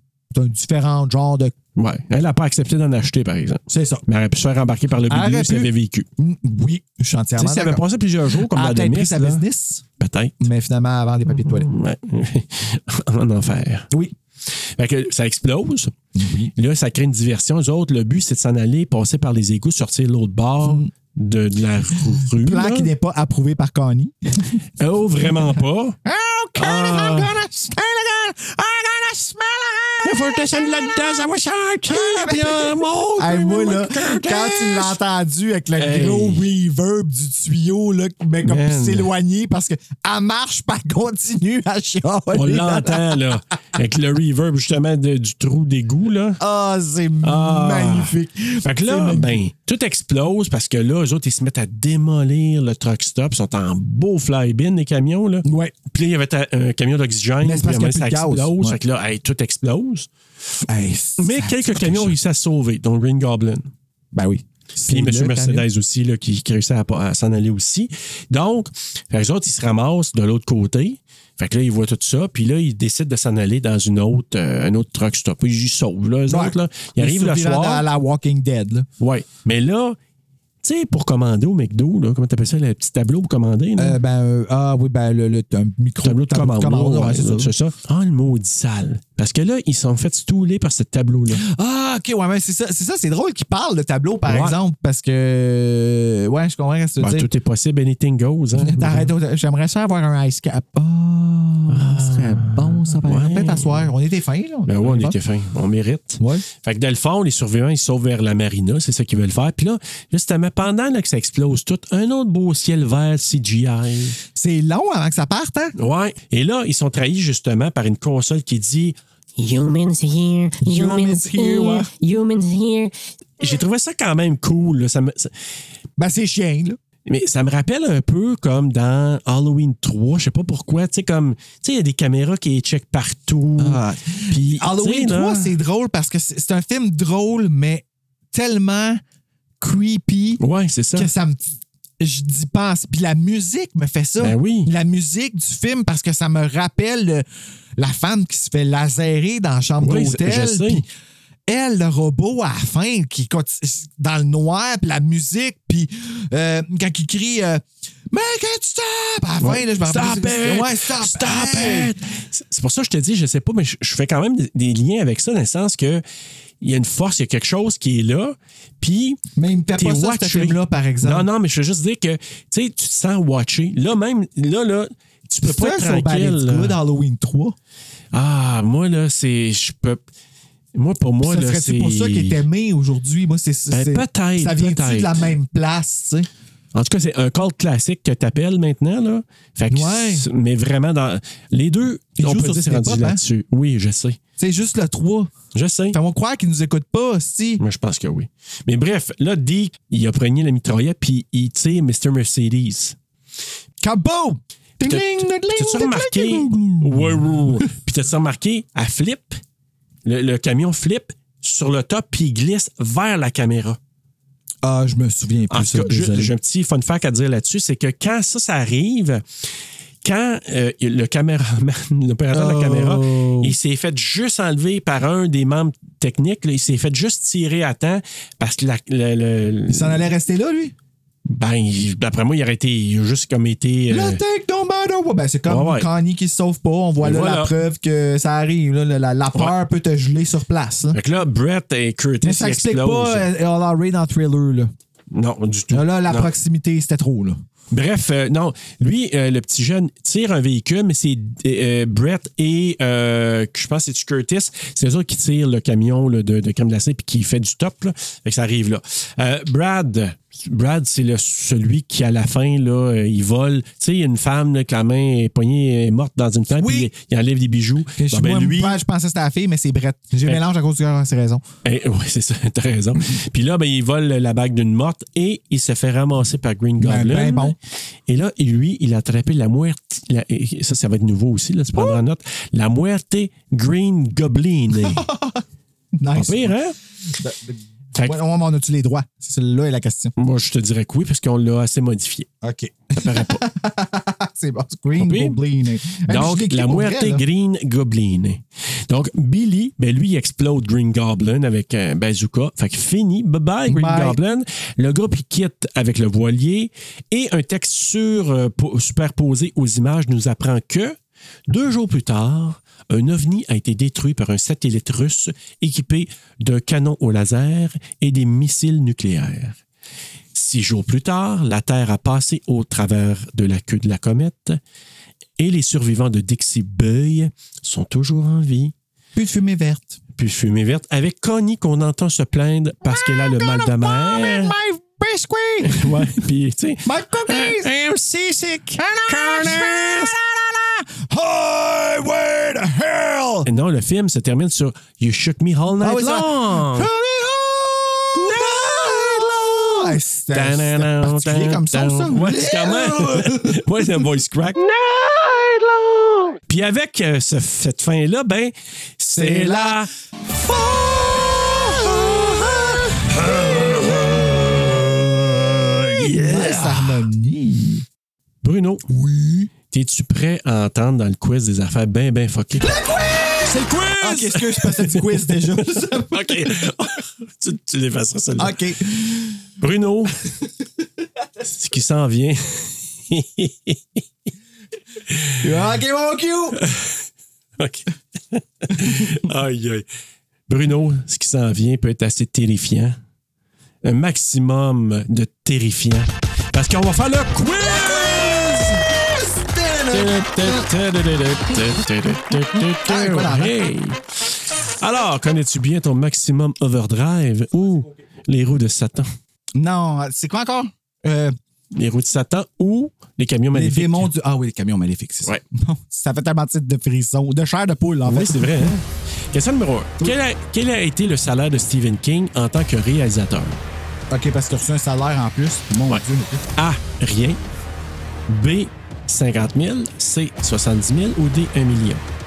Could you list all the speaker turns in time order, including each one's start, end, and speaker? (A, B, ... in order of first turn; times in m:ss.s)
0:00.3-0:01.5 A
0:01.8-0:06.1 B
0:03.7-0:04.0 A
0:05.1-0:09.8 A
0:07.4-0:09.4 B
0:10.0-0:10.5 B
0:10.4-0:11.7 A
0:11.3-0:13.9 B
0:14.5-0:15.9 B
0:16.2-0:16.5 A
0:16.6-0:22.9 B
0:20.6-0:20.9 A
0:21.9-0:24.6 A
0:24.8-0:26.0 B
0:25.2-0:30.8 A
0:26.6-0:27.3 B
0:30.0-0:34.9 B
0:31.9-0:43.3 A
0:35.8-0:36.5 B
0:38.4-0:39.1 B
0:42.3-0:46.4 B
0:46.4-0:49.4 A
0:47.2-1:00.1 B
0:55.4-0:55.7 A
0:57.4-0:58.8 A
1:00.7-1:02.2 A
1:01.2-1:03.7 B
1:04.1-1:05.7 A
1:04.9-1:17.8 B
1:16.3-1:18.9 A
1:19.0-1:20.0 B
1:20.6-1:24.0 B
1:23.8-1:27.5 A
1:26.0-1:31.4 B
1:31.3-1:37.3 A
1:34.3-1:34.6 B
1:37.0-1:39.1 B
1:38.6-1:45.2 A
1:41.7-1:43.9 B
1:44.7-1:54.2 B
1:46.2-1:46.5 A
1:54.3-1:55.7 A
1:55.8-1:59.0 B
1:59.4-2:02.9 C
2:00.6-2:01.9 A
2:03.4-2:05.3 B
2:06.0-2:06.8 A
2:07.1-2:15.6 B
2:13.6-2:19.0 A
2:19.6-2:20.4 A
2:20.4-2:21.1 B
2:21.0-2:27.2 A
2:24.2-2:24.7 B
2:27.8-2:30.9 A
2:29.8-2:30.8 B
2:31.5-2:42.0 A
2:39.4-2:46.0 B
2:46.6-2:49.2 B
2:49.4-2:51.3 A
2:49.8-2:56.8 B
2:55.4-2:57.6 A
2:58.1-3:00.0 B
3:00.8-3:02.4 B
3:01.2-3:06.3 A
3:03.7-3:05.3 B
3:06.7-3:14.2 B
3:09.7-3:10.3 A
3:12.2-3:13.2 A
3:14.4-3:15.3 A
3:15.5-3:16.0 B
3:15.9-3:17.6 A
3:17.6-3:23.0 B
3:23.8-3:27.7 A
3:24.8-3:29.4 B
3:30.0-3:33.8 B
3:34.6-3:36.3 A
3:35.5-3:39.2 B
3:40.0-3:50.1 B
3:42.3-3:43.6 A
3:49.7-3:50.8 A
3:51.3-3:54.2 B
3:53.9-4:01.0 A
3:55.5-3:55.9 B
3:57.0-3:57.6 B
4:00.9-4:03.3 B
4:02.2-4:04.7 A
4:05.1-4:06.3 B
4:05.7-4:07.4 A
4:07.7-4:28.8 B
4:26.5-4:26.9 A
4:28.0-4:31.4 A
4:31.6-4:37.6 B
4:36.8-4:37.6 A
4:38.1-4:45.1 B
4:44.7-4:45.4 A
4:46.0-4:46.5 A
4:46.2-4:46.8 B
4:47.1-4:50.1 A
4:50.2-4:52.3 B
4:52.4-4:57.2 A
4:53.0-4:53.4 B
4:55.0-4:55.4 B
4:56.1-5:11.0 B
5:03.7-5:04.2 A
5:11.5-5:19.6 B
5:20.3-5:24.6 B
5:25.4-5:28.7 B
5:29.2-5:30.0 A
5:30.2-5:34.6 B
5:32.8-5:36.0 A
5:35.6-5:40.1 B
5:36.8-5:37.7 A
5:38.8-5:43.5 A
5:43.4-5:46.9 B
5:45.8-5:53.9 A
5:48.2-5:54.8 B
5:54.8-5:55.8 A
5:56.5-5:59.9 B
5:59.1-6:04.7 A
6:03.2-6:07.0 B
6:05.8-6:07.9 A
6:08.4-6:08.8 B
6:08.9-6:09.5 A
6:09.7-6:12.7 B
6:12.6-6:16.6 A
6:13.4-6:18.6 B
6:18.4-6:19.4 A
6:19.6-6:20.2 B
6:21.4-6:24.0 B
6:25.1-6:25.4 B
6:25.4-6:26.6 A
6:26.6-6:27.0 B
6:27.6-6:29.8 B
6:28.8-6:29.1 A
6:30.5-6:33.0 B
6:33.8-6:38.8 B
6:37.9-6:40.7 A
6:39.9-6:49.1 B
6:42.5-6:43.6 A
6:49.6-6:51.4 A
6:51.7-6:54.1 B
6:53.5-6:58.8 A
6:58.1-7:03.6 B
7:04.1-7:06.4 A
7:06.6-7:07.4 B
7:08.3-7:12.0 B